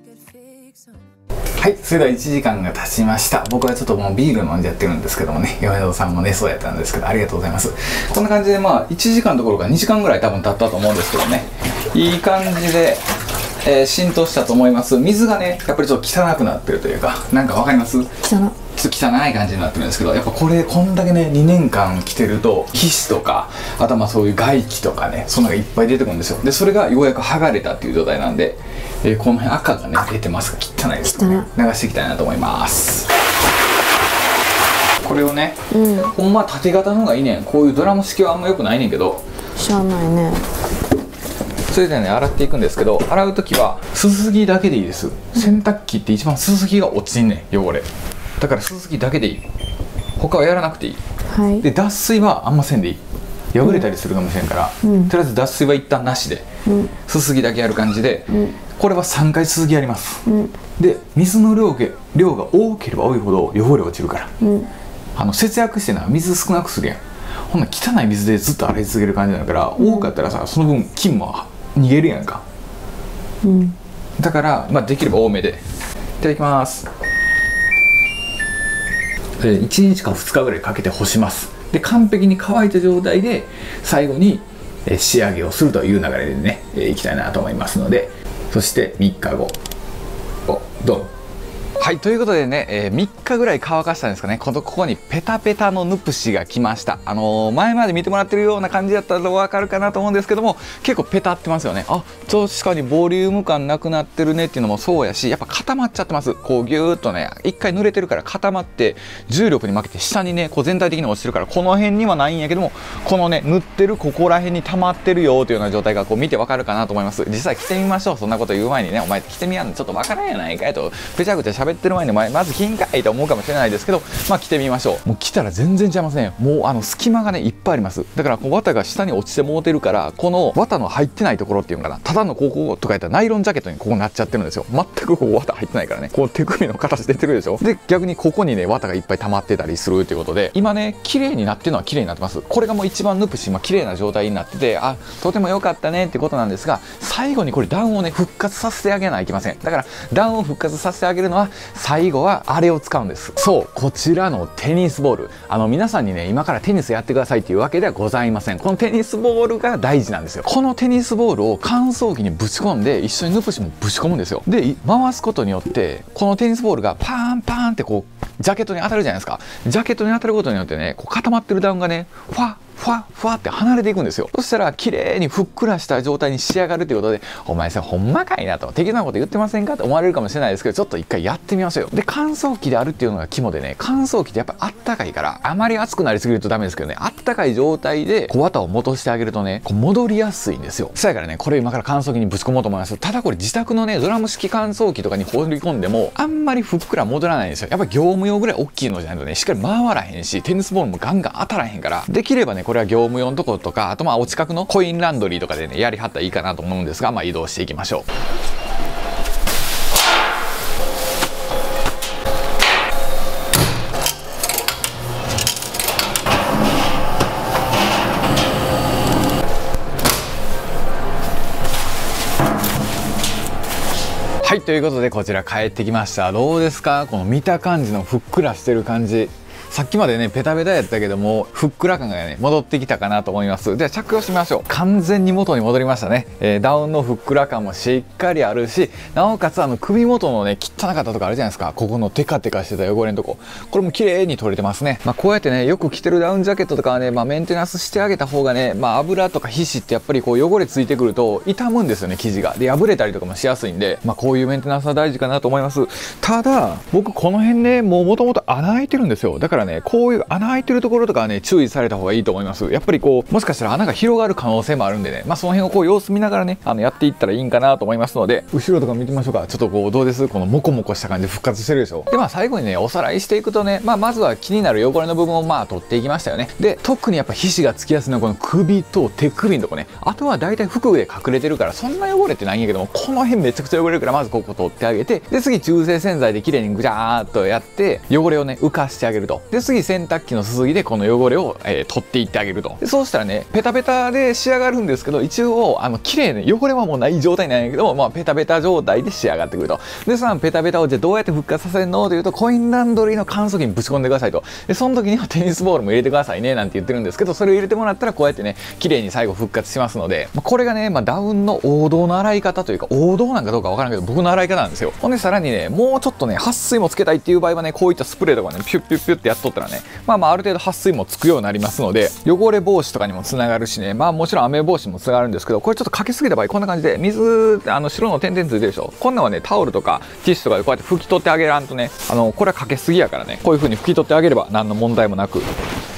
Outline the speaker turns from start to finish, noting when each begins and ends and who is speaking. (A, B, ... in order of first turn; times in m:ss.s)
0:01.6-0:13.0 A
0:13.6-0:33.1 A
0:18.2-0:18.6 B
0:31.1-0:31.5 B
0:35.0-0:39.2 A
0:35.7-0:36.1 B
0:39.6-0:40.5 B
0:41.7-0:47.9 A
0:48.4-0:49.4 A
0:50.2-0:51.0 A
0:51.3-0:51.7 B
0:51.6-0:53.0 A
0:53.5-0:56.5 A
0:54.8-0:55.1 B
0:56.6-0:56.9 B
0:57.0-1:04.3 A
1:00.2-1:00.6 B
1:04.4-1:04.7 B
1:05.2-1:12.4 A
1:09.8-1:10.1 B
1:13.4-1:13.8 B
1:14.2-1:15.6 A
1:16.2-1:16.9 A
1:19.4-1:29.6 A
1:30.5-1:31.1 A
1:31.8-3:28.1 A
3:44.4-5:35.5 A